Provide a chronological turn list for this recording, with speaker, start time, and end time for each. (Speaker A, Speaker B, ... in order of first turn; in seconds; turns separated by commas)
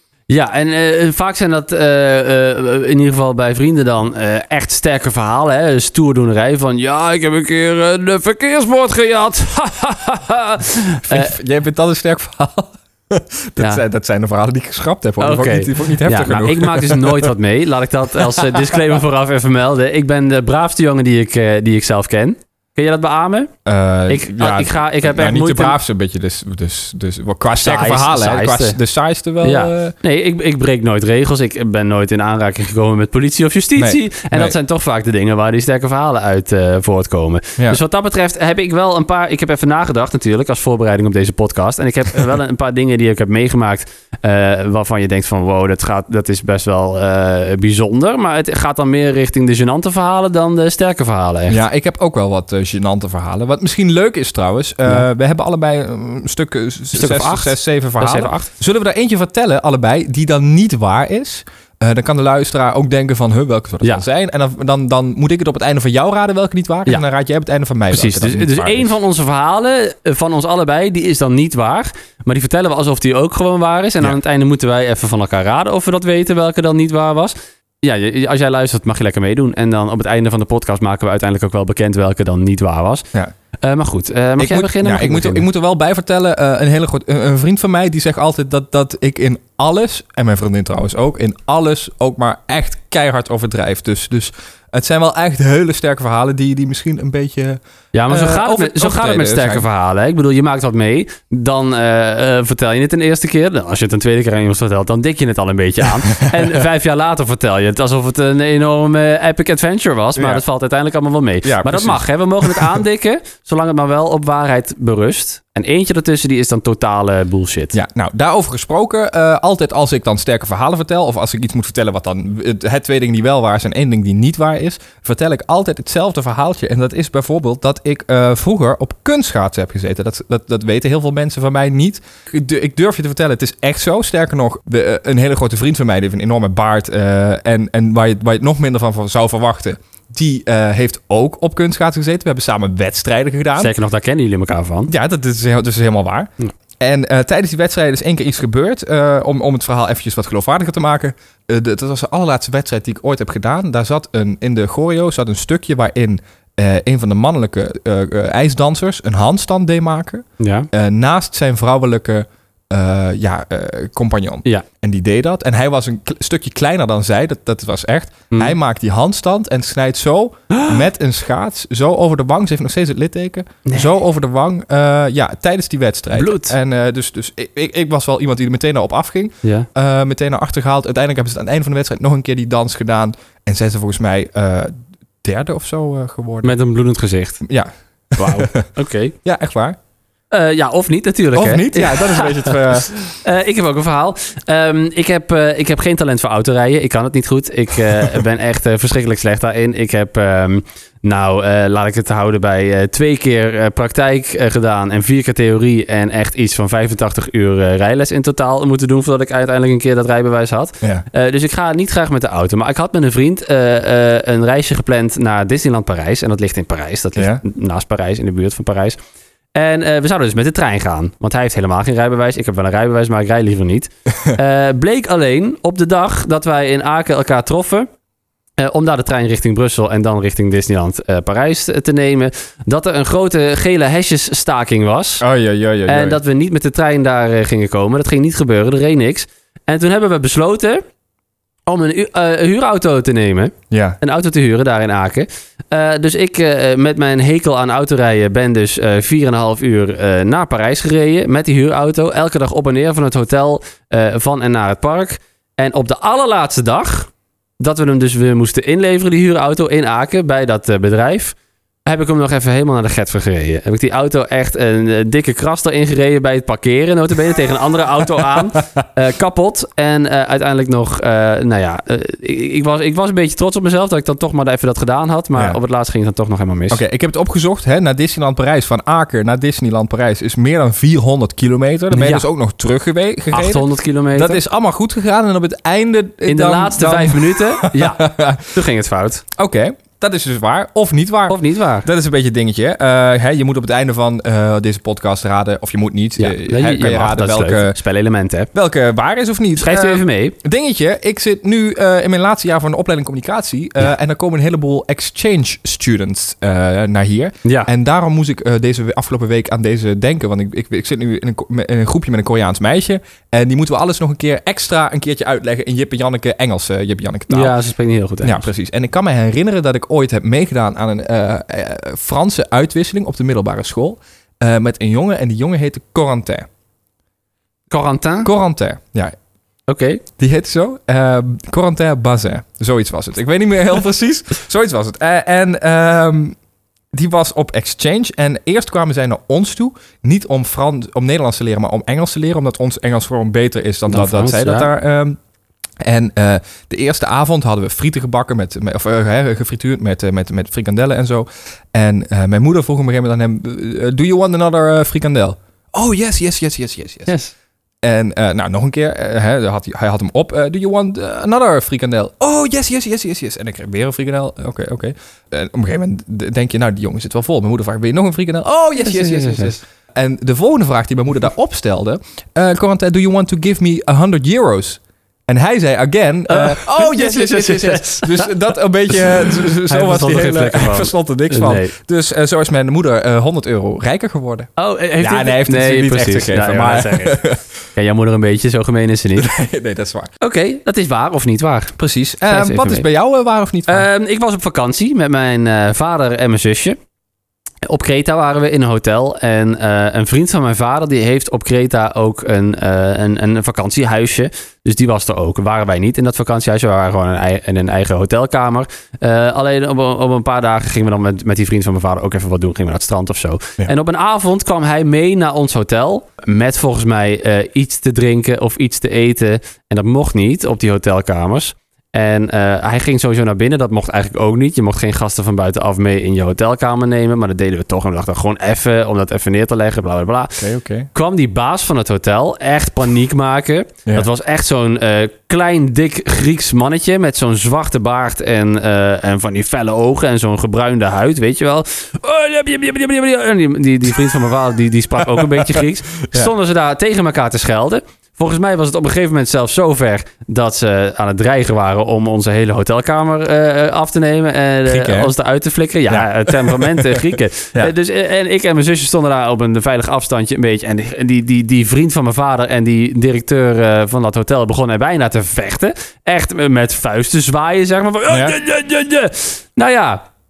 Speaker A: 0.3-11.3, Speaker B: 11.1-17.3, Speaker A: 15.2-23.5, Speaker B: 18.2-18.8, Speaker B: 23.7-29.9, Speaker A: 24.1-25.8, Speaker A: 27.6-28.8, Speaker A: 29.4-51.6, Speaker B: 33.8-34.5, Speaker B: 51.5-69.0, Speaker A: 56.9-58.5, Speaker A: 67.9-83.1, Speaker A: 83.6-85.5, Speaker B: 84.4-99.7, Speaker A: 97.9-117.7, Speaker B: 110.2-110.4, Speaker B: 111.5-112.8, Speaker B: 117.7-143.7, Speaker A: 143.6-144.9, Speaker B: 144.9-186.5, Speaker A: 160.4-160.7, Speaker A: 173.6-173.9, Speaker A: 176.1-176.6, Speaker A: 179.4-179.7, Speaker A: 186.4-187.4, Speaker B: 187.4-188.7, Speaker A: 188.2-189.1, Speaker B: 189.2-189.8, Speaker A: 190.3-219.0, Speaker B: 191.3-192.9, Speaker B: 217.2-217.4, Speaker A: 219.6-227.9, Speaker A: 228.6-235.2, Speaker B: 235.2-236.2, Speaker A: 235.9-240.8, Speaker A: 241.7-276.8, Speaker B: 243.7-244.0, Speaker B: 276.7-288.5, Speaker A: 281.9-282.2, Speaker A: 283.3-284.4, Speaker A: 286.3-289.2, Speaker B: 289.4-297.8, Speaker A: 291.3-291.9, Speaker A: 296.2-298.5, Speaker B: 298.5-317.5, Speaker A: 299.6-300.4, Speaker A: 317.3-318.5, Speaker B: 318.2-326.5, Speaker A: 327.7-328.3, Speaker B: 328.2-329.1, Speaker A: 329.7-330.0, Speaker B: 330.2-336.4, Speaker B: 336.9-345.2, Speaker A: 343.9-344.7, Speaker B: 345.8-357.1, Speaker A: 357.1-357.3, Speaker B: 357.8-387.4, Speaker A: 368.8-369.6, Speaker A: 376.3-378.3, Speaker A: 379.2-381.7, Speaker A: 384.6-387.2, Speaker A: 387.8-389.3, Speaker B: 389.2-390.1, Speaker A: 390.2-391.8, Speaker B: 391.8-393.9, Speaker A: 392.3-392.9, Speaker A: 393.7-396.8, Speaker A: 397.7-430.4, Speaker B: 430.4-430.9, Speaker A: 430.9-470.1, Speaker B: 445.4-446.3, Speaker B: 454.7-455.1, Speaker B: 455.9-457.7, Speaker B: 468.1-468.3